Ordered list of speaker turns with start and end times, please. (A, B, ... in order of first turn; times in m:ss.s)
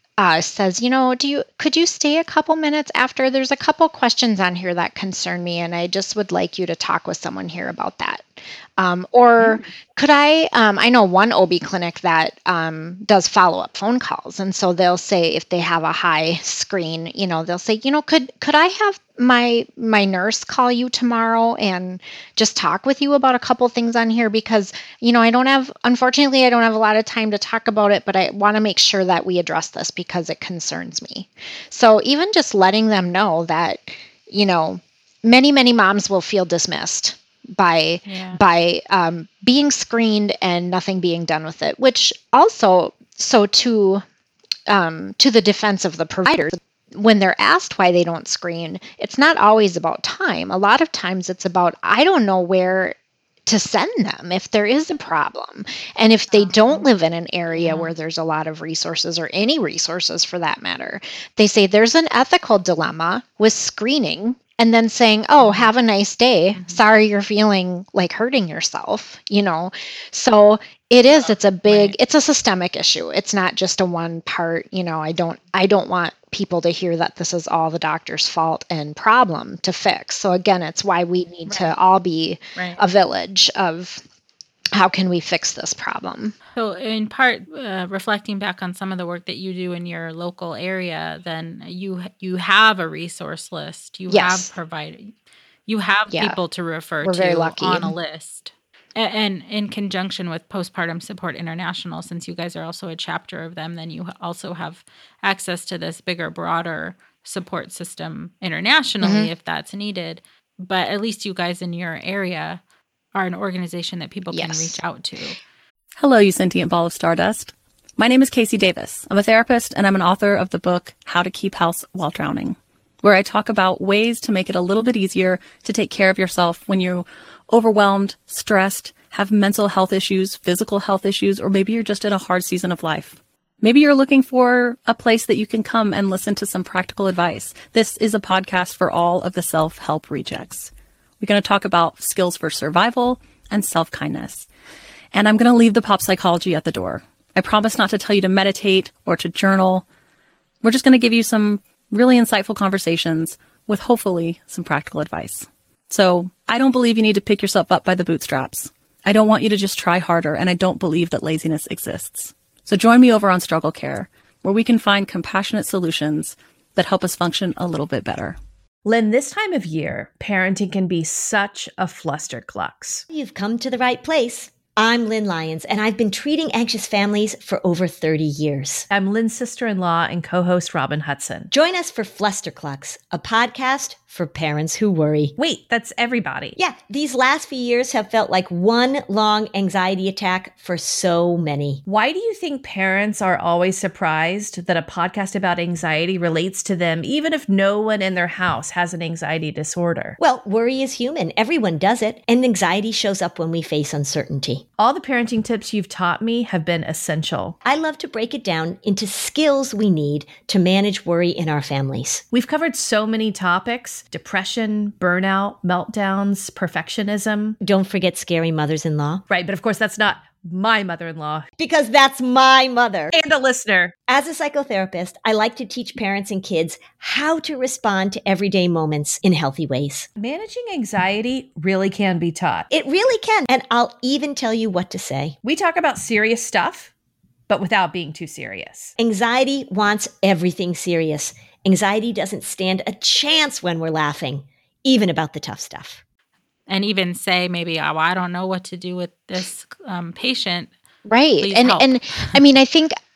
0:00.2-0:44.0 A
0:09.4-0:09.7 B
0:38.0-0:38.4 B
0:44.7-1:24.0 A
0:56.3-0:56.8 B
0:57.5-0:57.9 B
1:05.4-1:05.7 B
1:06.5-1:06.8 B
1:11.1-1:12.0 B
1:21.4-1:21.7 B
1:22.6-1:22.8 B
1:24.7-1:26.4 A
1:26.5-1:35.1 B
1:34.1-1:34.5 A
1:35.7-1:52.6 B
1:36.1-1:36.4 A
1:37.0-1:38.0 A
1:49.0-1:49.3 A
1:53.1-1:55.4 B
1:54.3-1:54.8 A
1:56.0-2:24.5 C
2:25.1-2:29.8 C
2:30.6-2:48.4 C
2:48.8-2:53.0 D
2:53.1-2:58.8 E
2:58.9-3:01.5 D
3:01.5-3:05.3 E
3:05.4-3:06.5 D
3:06.5-3:11.8 E
3:11.8-3:20.2 D
3:20.2-3:24.6 E
3:24.8-3:27.6 D
3:27.6-3:32.2 E
3:32.3-3:37.6 D
3:37.6-3:39.2 E
3:39.3-3:41.5 D
3:41.6-3:43.1 E
3:43.1-3:43.9 D
3:43.9-3:50.1 E
3:50.2-3:52.7 D
3:52.7-3:55.4 E
3:55.4-3:56.9 D
3:57.5-3:58.9 D
3:59.0-4:06.0 E
4:06.7-4:10.7 B
4:11.1-4:12.9 A
4:11.4-4:12.4 B